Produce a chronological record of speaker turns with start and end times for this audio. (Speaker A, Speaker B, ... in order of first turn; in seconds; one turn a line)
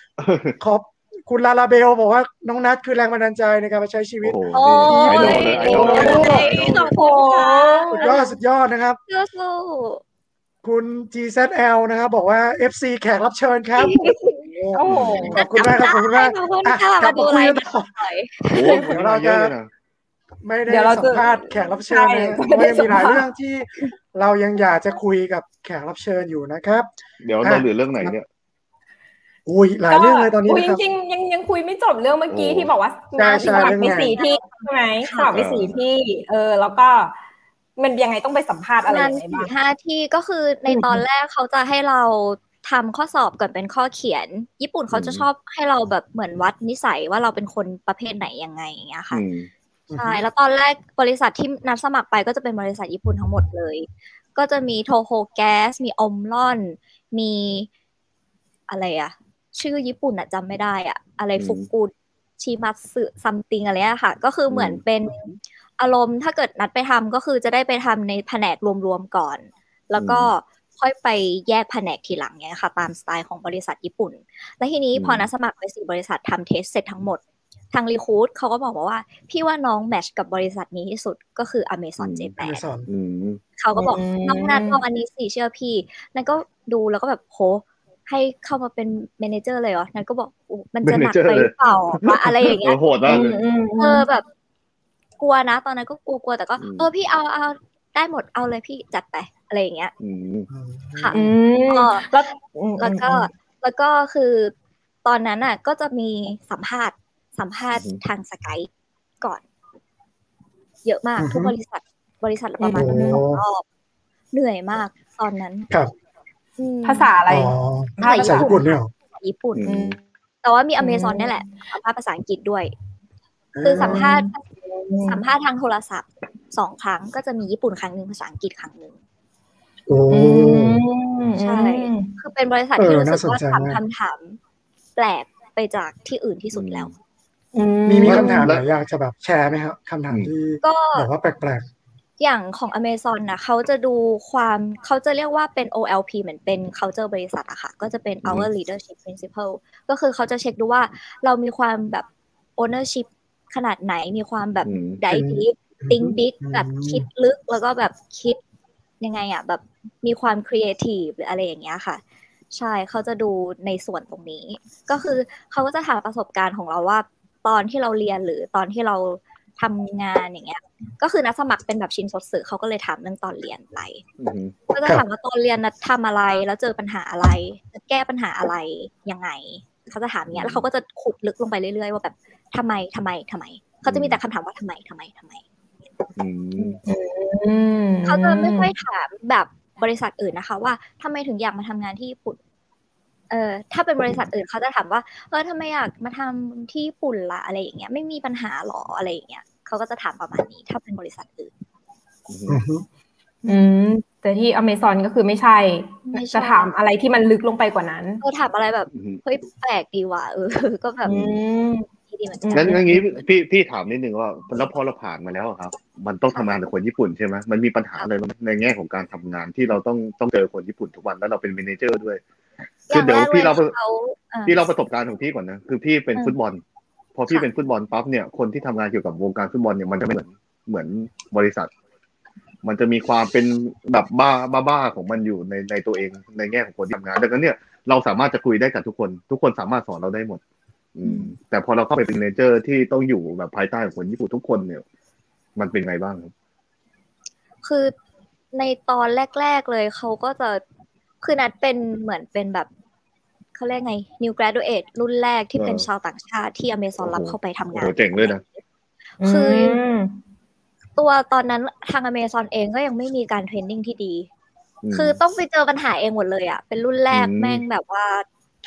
Speaker A: 0.2-0.6
Speaker B: 0.6-6.5
Speaker A: 4.2-6.9
Speaker C: 4.5-8.3
Speaker D: 5.2-8.1
Speaker B: 7.9-9.0
Speaker C: 9.1-10.0
Speaker B: 10.6-17.9
Speaker C: 13.8-14.2
Speaker D: 14.7-15.4
Speaker A: 14.9-15.4
Speaker C: 15.3-18.9
Speaker A: 18.5-19.7
Speaker B: 18.6-19.5
Speaker B: 20.4-26.9
Speaker D: 20.7-23.2
Speaker A: 27.2-28.2
Speaker B: 27.4-28.1
Speaker B: 29.4-30.8
Speaker D: 29.9-37.1
Speaker A: 32.3-32.7
Speaker B: 33.2-34.1
Speaker C: 33.4-35.4
Speaker A: 35.3-35.8
Speaker D: 37.8-39.5
Speaker C: 38.9-49.2
Speaker D: 40.7-41.0
Speaker A: 44.9-45.3
Speaker A: 49.1-49.5
Speaker B: 49.9-50.2
Speaker C: 49.9-57.7
Speaker C: 58.7-65.2
Speaker A: 61.4-61.7
Speaker A: 64.5-65.2
Speaker C: 65.8-77.2
Speaker A: 70.0-70.3
Speaker A: 75.0-75.3
Speaker C: 77.7-82.6
Speaker A: 82.0-82.3
Speaker B: 82.4-82.9
Speaker A: 82.8-83.4
Speaker C: 83.6-93.2
Speaker D: 83.7-84.8
Speaker A: 90.8-93.4
Speaker D: 93.1-94.0
Speaker C: 93.8-94.2
Speaker C: 95.2-99.9
Speaker A: 96.6-96.9
Speaker A: 100.0-100.5
Speaker B: 100.5-101.3
Speaker C: 101.0-102.1
Speaker D: 101.1-103.3
Speaker C: 102.8-104.5
Speaker C: 105.0-108.7
Speaker A: 107.7-108.0
Speaker C: 110.8-113.6
Speaker B: 111.2-111.5
Speaker D: 112.6-113.2
Speaker B: 112.7-113.4
Speaker C: 114.3-115.7
Speaker C: 116.6-117.1
Speaker D: 116.8-118.7
Speaker B: 117.3-118.9
Speaker C: 118.0-119.7
Speaker A: 119.5-120.0
Speaker D: 119.6-120.0
Speaker C: 120.4-122.7
Speaker D: 120.8-121.5
Speaker B: 123.5-124.1
Speaker C: 123.6-124.4
Speaker D: 123.8-125.2
Speaker C: 125.0-128.9
Speaker B: 129.9-130.8
Speaker D: 130.1-132.1
Speaker C: 131.4-134.4
Speaker B: 132.8-133.8
Speaker C: 134.9-136.9
Speaker A: 136.5-136.9
Speaker D: 137.5-138.5
Speaker B: 137.9-141.7
Speaker A: 138.0-138.6
Speaker C: 140.6-141.1
Speaker C: 142.2-158.4
Speaker A: 148.2-148.5
Speaker A: 154.6-155.0
Speaker B: 155.1-157.1
Speaker C: 159.0-162.0
Speaker C: 162.5-174.0
Speaker A: 174.2-174.5
Speaker C: 174.7-185.4
Speaker A: 180.3-180.6
Speaker A: 183.8-184.2
Speaker A: 186.2-186.8
Speaker D: 186.8-188.7
Speaker C: 188.1-192.4
Speaker C: 193.3-201.5
Speaker A: 202.3-202.6
Speaker B: 202.5-202.8
Speaker D: 203.4-208.2
Speaker C: 206.1-206.7
Speaker C: 208.2-211.2
Speaker A: 208.9-209.2
Speaker D: 211.1-211.9
Speaker A: 211.1-211.4
Speaker C: 212.1-213.0
Speaker D: 212.4-213.0
Speaker A: 212.5-222.2
Speaker A: 222.9-223.7
Speaker C: 222.9-224.6
Speaker A: 224.4-226.6
Speaker A: 227.2-231.7
Speaker A: 232.6-240.4
Speaker A: 240.9-244.8
Speaker A: 245.6-246.3
Speaker C: 247.6-247.9
Speaker C: 248.5-250.6
Speaker C: 251.2-252.7
Speaker C: 253.6-258.6
Speaker A: 255.6-255.9
Speaker A: 257.0-258.4
Speaker D: 259.2-260.2
Speaker C: 259.2-259.8
Speaker C: 260.9-264.3
Speaker A: 264.8-265.2
Speaker C: 264.9-268.2
Speaker A: 267.1-267.6